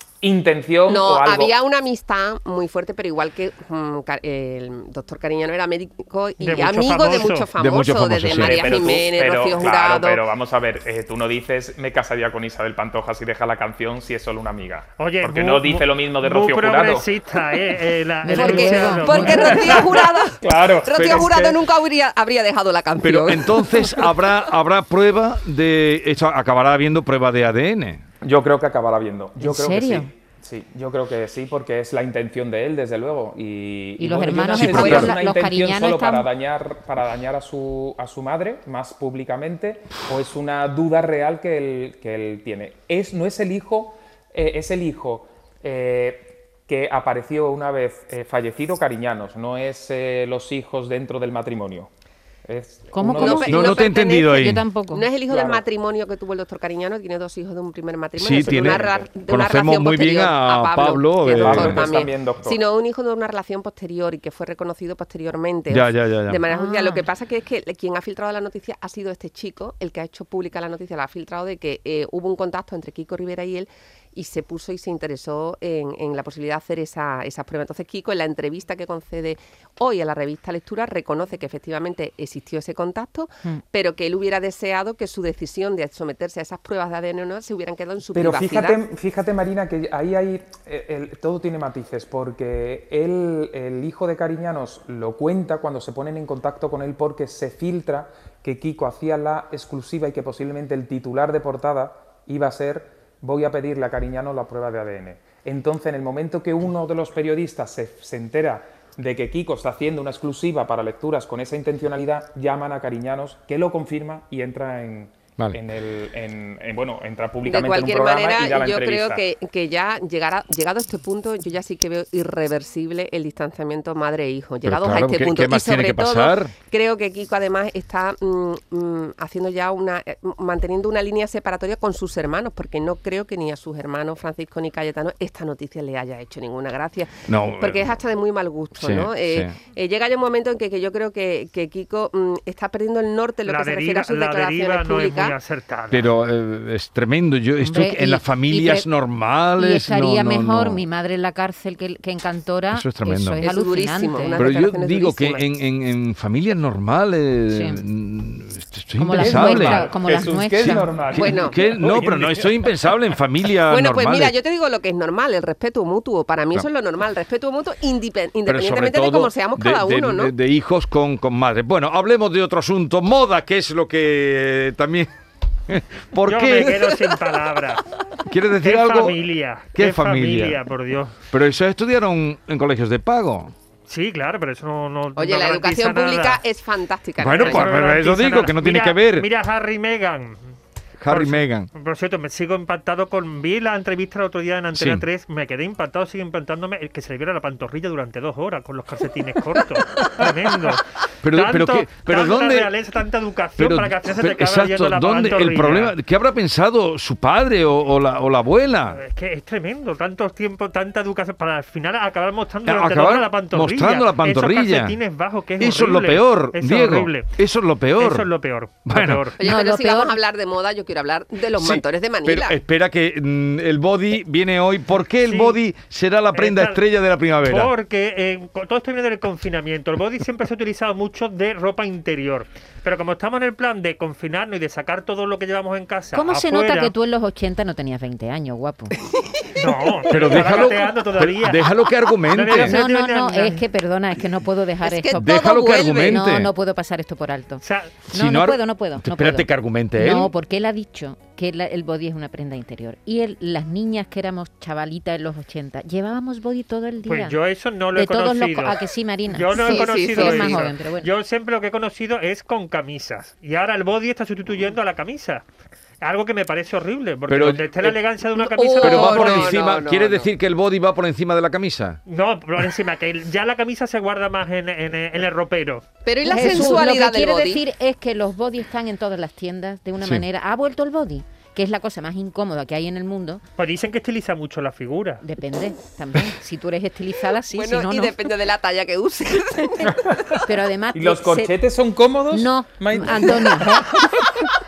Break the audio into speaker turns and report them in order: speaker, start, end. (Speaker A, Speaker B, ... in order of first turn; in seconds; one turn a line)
Speaker A: 0.2-1.5
Speaker B: 0.9-10.2
Speaker C: 6.4-7.5
Speaker D: 7.6-8.9
Speaker A: 8.3-17.1
Speaker C: 15.0-19.9
Speaker E: 18.2-19.7
Speaker B: 18.3-24.1
Speaker A: 19.6-21.6
Speaker D: 21.0-21.4
Speaker D: 23.0-28.0
Speaker A: 28.2-51.9
Speaker E: 29.4-30.1
Speaker E: 34.0-36.3
Speaker D: 34.5-35.1
Speaker A: 52.5-53.8
Speaker E: 52.9-55.0
Speaker B: 53.2-88.8
Speaker D: 53.5-54.6
Speaker A: 55.3-55.6
Speaker D: 58.2-61.9
Speaker A: 58.5-59.1
Speaker A: 61.3-62.6
Speaker D: 65.7-66.4
Speaker E: 66.5-67.0
Speaker A: 88.1-119.2
Speaker B: 117.4-145.3
Speaker D: 124.6-126.5
Speaker D: 137.3-137.9
Speaker D: 138.8-139.5
Speaker C: 143.4-146.1
Speaker D: 145.9-150.8
Speaker E: 147.6-148.9
Speaker E: 149.6-154.4
Speaker D: 152.7-153.4
Speaker B: 153.4-155.4
Speaker D: 154.4-159.9
Speaker E: 157.5-157.8
Speaker E: 159.0-160.9
Speaker A: 159.2-162.7
Speaker D: 160.6-164.3
Speaker B: 161.1-161.5
Speaker B: 163.7-170.3
Speaker D: 168.4-175.1
Speaker D: 175.7-177.0
Speaker C: 176.2-177.8
Speaker D: 178.2-179.2
Speaker C: 178.6-181.2
Speaker D: 179.7-180.6
Speaker D: 181.3-183.5
Speaker C: 183.9-186.4
Speaker B: 185.2-187.8
Speaker D: 187.2-189.3
Speaker C: 187.3-190.5
Speaker D: 191.0-191.7
Speaker C: 191.1-205.9
Speaker D: 194.7-195.0
Speaker D: 201.2-202.7
Speaker D: 203.6-209.0
Speaker C: 208.9-217.4
Speaker D: 212.7-214.9
Speaker D: 215.6-218.3
Speaker C: 217.9-219.4
Speaker D: 218.8-219.3
Speaker B: 219.4-222.6
Speaker E: 219.4-220.2
Speaker D: 221.6-227.7
Speaker C: 225.2-225.6
Speaker C: 226.3-226.8
Speaker C: 227.4-236.9
Speaker E: 236.1-239.0
Speaker C: 239.6-243.6
Speaker D: 240.1-242.8
Speaker E: 242.5-245.3
Speaker B: 244.8-246.2
Speaker D: 245.2-246.5
Speaker E: 246.1-257.4
Speaker C: 247.6-247.9
Speaker D: 248.1-250.3
Speaker C: 257.1-265.4
Speaker E: 257.9-261.1
Speaker B: 259.5-260.7
Speaker C: 266.0-269.6
Speaker D: 267.3-268.0
Speaker B: 268.4-270.3
Speaker D: 268.8-272.0
Speaker C: 272.1-275.9
Speaker B: 276.0-277.6
Speaker E: 276.2-283.4
Speaker C: 283.6-285.2
Speaker E: 285.2-288.2
Speaker B: 287.5-290.1
Speaker A: 290.0-290.4
Speaker E: 290.4-291.6
Speaker A: 290.9-294.0
Speaker E: 292.3-294.4